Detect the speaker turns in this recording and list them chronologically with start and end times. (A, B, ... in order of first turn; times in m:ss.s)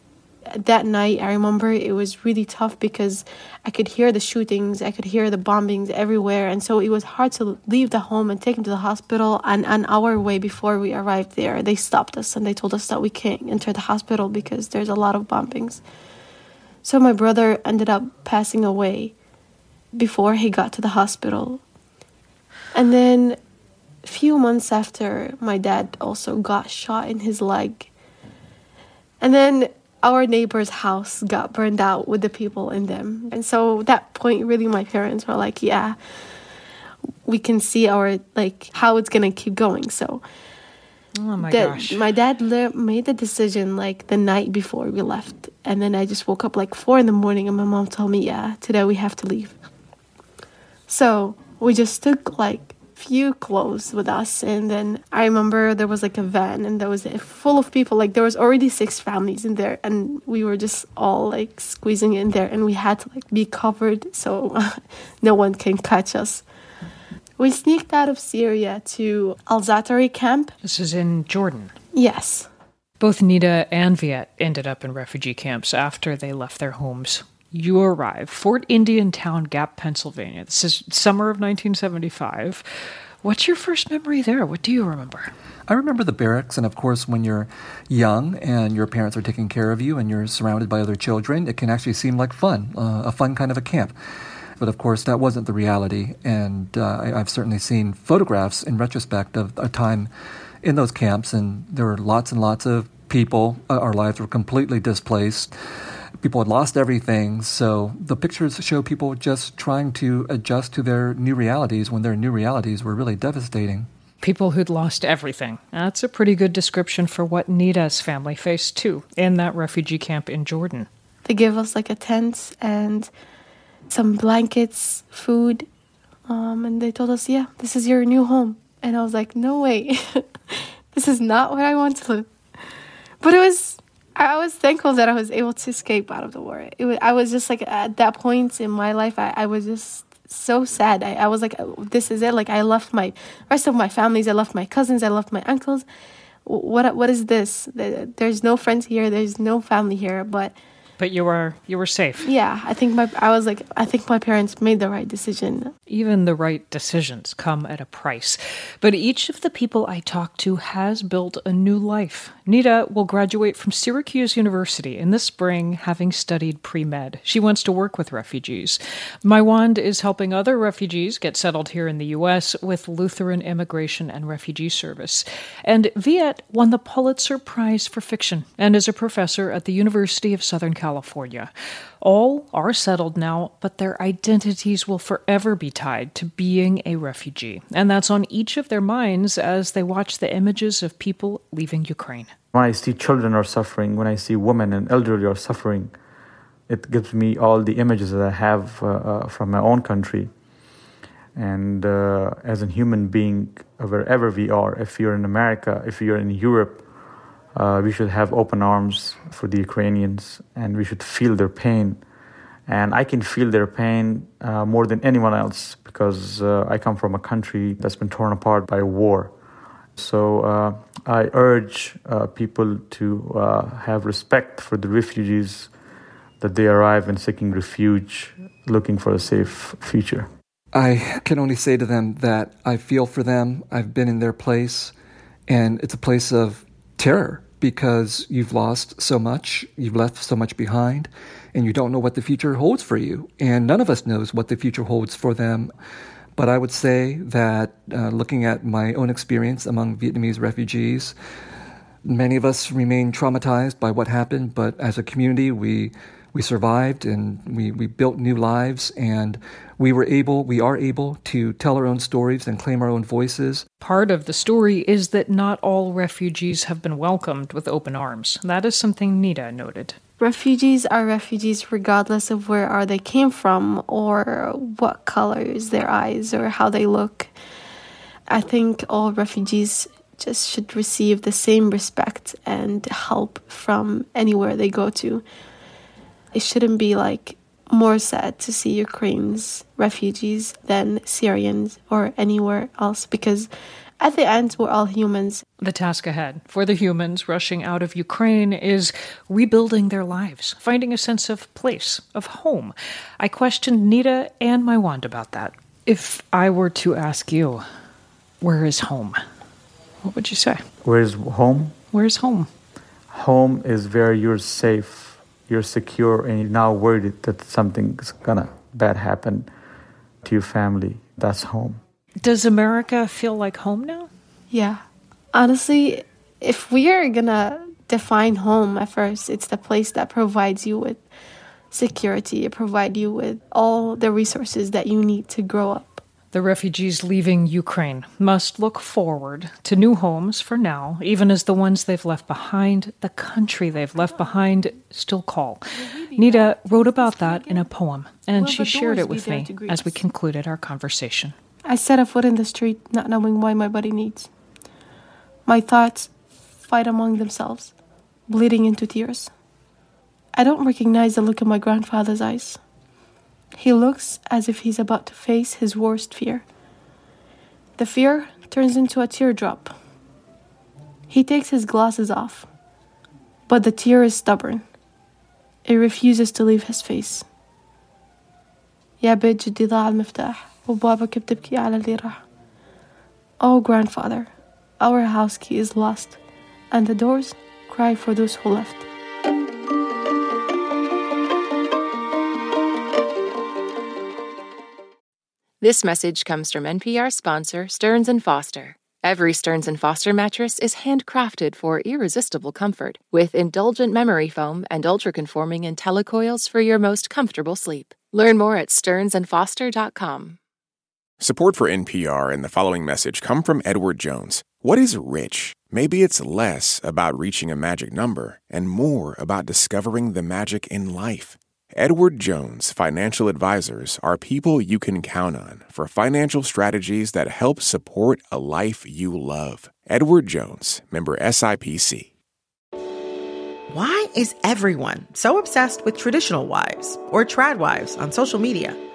0:00.5-0:15.8 A
0:16.8-0:19.1 A
0:19.9-0:21.6 A
0:22.7-0:23.4 A
0:24.0-0:27.9 A
0:29.2-0:36.0 A
0:37.2-0:40.2 A
0:41.2-0:42.1 B
0:41.4-0:49.6 A
0:50.9-1:06.4 A
1:07.4-1:10.5 A
1:10.6-1:11.7 B
1:11.9-1:12.5 A
1:13.0-1:22.6 B
1:23.2-1:25.3 B
1:25.7-1:33.9 C
1:34.6-1:40.1 C
1:40.6-1:45.5 C
1:46.2-1:53.9 C
1:54.2-2:00.9 B
2:01.2-2:03.1 A
2:03.9-2:05.7 A
2:06.3-2:12.3 A
2:13.2-2:25.8 A
2:26.4-2:30.6 A
2:31.0-2:32.3 B
2:32.2-2:35.7 A
2:35.9-3:12.3 B
3:12.5-3:15.9 D
3:16.7-3:20.3 D
3:21.3-3:26.8 D
3:27.5-3:32.0 D
3:32.7-3:39.3 D
3:40.0-3:45.7 D
3:46.4-3:50.3 D
3:50.7-3:54.9 C
3:55.5-4:05.7 C
4:06.4-4:11.1 C
4:12.0-4:23.6 C
4:23.8-4:30.0 B
4:30.2-4:37.3 A
4:38.3-4:45.2 A
4:46.3-4:53.5 A
4:54.0-4:55.4 A
4:55.6-5:07.6 B
5:08.4-5:09.2 B
5:10.0-5:10.6 B
5:10.8-5:11.7 D
5:11.9-5:12.5 B
5:13.1-5:19.5 D
5:20.2-5:21.8 D
5:22.2-5:24.1 B
5:24.5-5:24.8 A
5:25.3-5:31.0 A
5:31.7-5:36.0 A
5:36.3-5:45.6 B
5:44.0-5:44.6 A
5:45.7-5:47.7 A
5:46.2-5:51.3 B
5:48.3-5:50.0 A
5:51.6-5:54.3 A
5:55.4-5:56.1 A
5:56.6-5:57.7 A
5:58.3-5:59.3 A
6:00.3-6:02.6 A
6:03.6-6:06.4 A
6:07.8-6:09.7 A
6:11.1-6:12.5 A
6:13.5-6:14.6 A
6:15.6-6:17.2 A
6:19.0-6:22.2 A
6:23.4-6:26.2 A
6:26.7-6:28.8 A
6:35.6-6:50.4 E
6:51.2-7:12.1 F
7:13.7-7:18.8 G